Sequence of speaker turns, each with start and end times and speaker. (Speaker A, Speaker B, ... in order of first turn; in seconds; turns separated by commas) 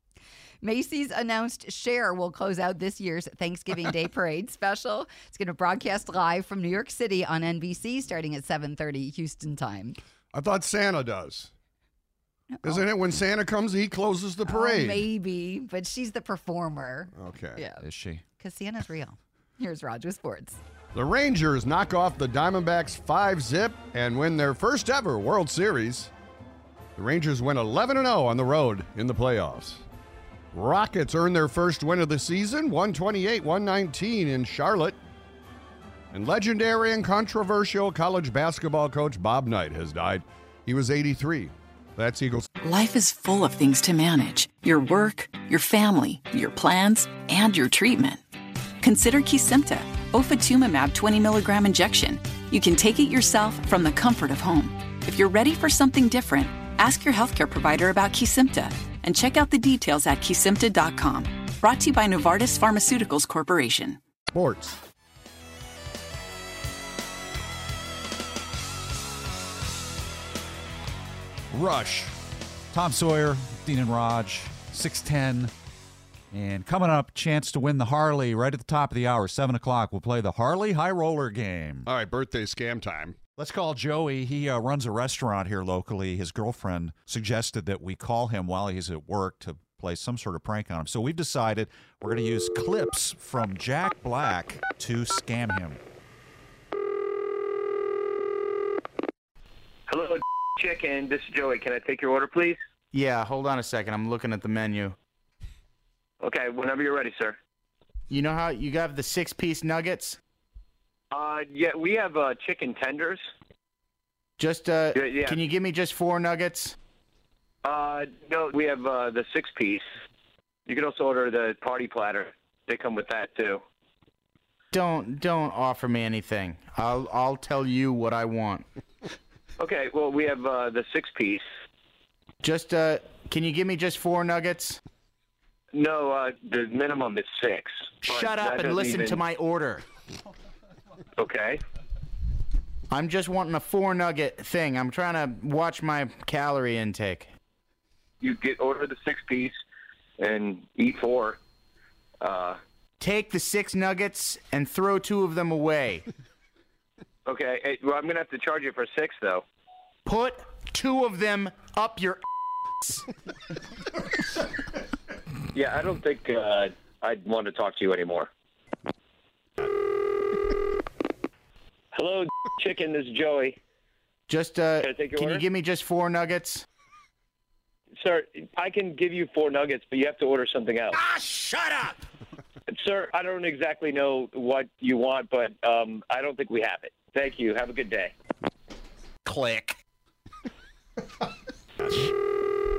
Speaker A: 0.6-10.0, Speaker B: 10.3-11.5, Speaker A: 12.5-12.8, Speaker B: 12.6-15.1, Speaker A: 14.4-17.8, Speaker B: 17.1-17.6, Speaker C: 17.8-18.2, Speaker A: 18.4-20.6, Speaker B: 20.9-26.1, Speaker B: 26.9-29.8, Speaker B: 30.5-35.0, Speaker B: 36.1-42.5, Speaker D: 42.6-48.2, Speaker D: 48.8-64.0, Speaker B: 64.3-64.8, Speaker C: 71.5-72.1, Speaker B: 71.6-72.1, Speaker C: 72.7-75.5, Speaker C: 76.3-81.9, Speaker B: 81.8-83.2, Speaker C: 83.4-95.8, Speaker E: 99.9-102.6, Speaker F: 102.9-104.9, Speaker E: 106.2-107.4, Speaker F: 108.1-110.2, Speaker E: 111.1-113.3, Speaker F: 114.4-116.7, Speaker E: 114.9-115.4, Speaker E: 117.6-119.8, Speaker E: 120.7-123.6, Speaker F: 124.7-128.6, Speaker E: 129.6-131.4, Speaker F: 132.4-134.8, Speaker E: 135.7-139.2, Speaker F: 138.0-139.8, Speaker E: 141.2-141.6, Speaker F: 142.9-147.3, Speaker E: 148.2-149.6, Speaker E: 150.2-151.4, Speaker E: 152.2-152.6, Speaker F: 153.0-156.1, Speaker E: 157.2-159.4, Speaker F: 160.1-162.2, Speaker E: 165.5-168.3, Speaker E: 171.9-173.6, Speaker F: 174.3-176.6, Speaker E: 174.8-175.4, Speaker E: 178.0-181.0, Speaker F: 180.9-182.0, Speaker E: 182.7-188.1, Speaker F: 189.2-189.8